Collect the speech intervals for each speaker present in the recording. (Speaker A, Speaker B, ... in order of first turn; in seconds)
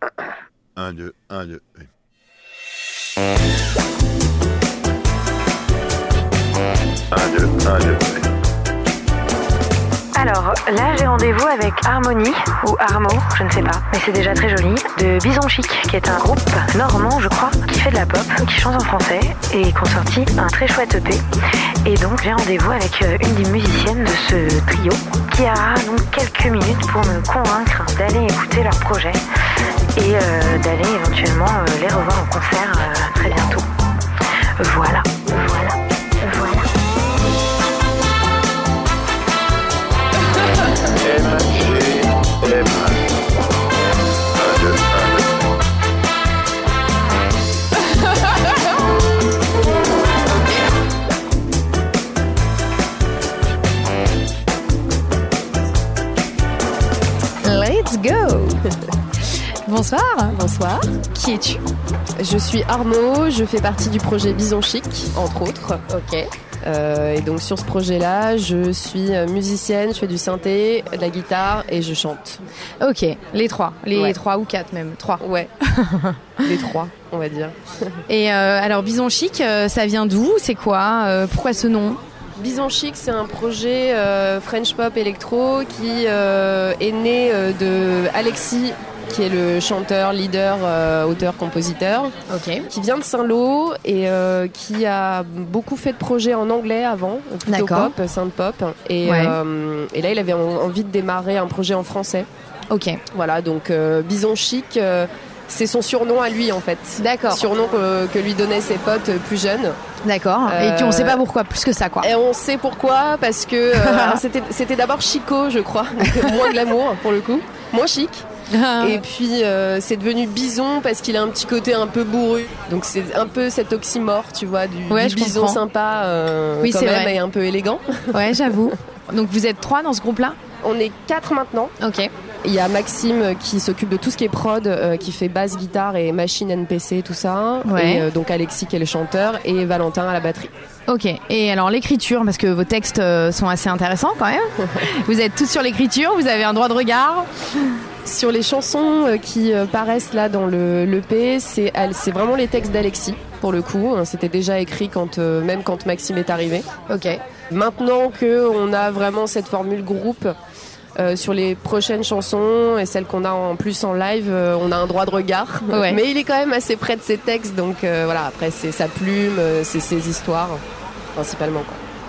Speaker A: 0.8-1.9, 7.1-8.2, 41.0-43.0, 44.3-45.3
Speaker B: 10.1-21.2, 21.8-29.2, 29.9-33.6, 34.6-36.7
Speaker C: 57.4-58.6, 59.7-60.4, 61.1-61.6, 65.9-66.3, 72.8-76.5, 78.1-82.0, 92.3-92.7, 97.5-97.9, 99.0-99.4, 102.7-103.0, 107.0-107.4, 110.0-112.1, 113.7-114.2, 116.0-116.3, 118.5-119.0, 124.9-125.6, 126.6-127.2, 128.1-130.4, 131.8-132.1, 137.6-138.1, 140.9-147.3, 156.9-157.2, 165.7-166.0
Speaker D: 60.3-61.0, 62.2-65.8, 66.6-72.4, 73.9-74.2, 75.2-75.5, 76.4-77.5, 82.4-92.1, 92.7-102.3, 103.1-109.8, 110.4-111.2, 112.0-118.2, 118.8-128.7, 130.6-131.7, 132.4-140.5, 148.0-156.7, 157.5-160.3, 161.0-170.6, 171.1-171.8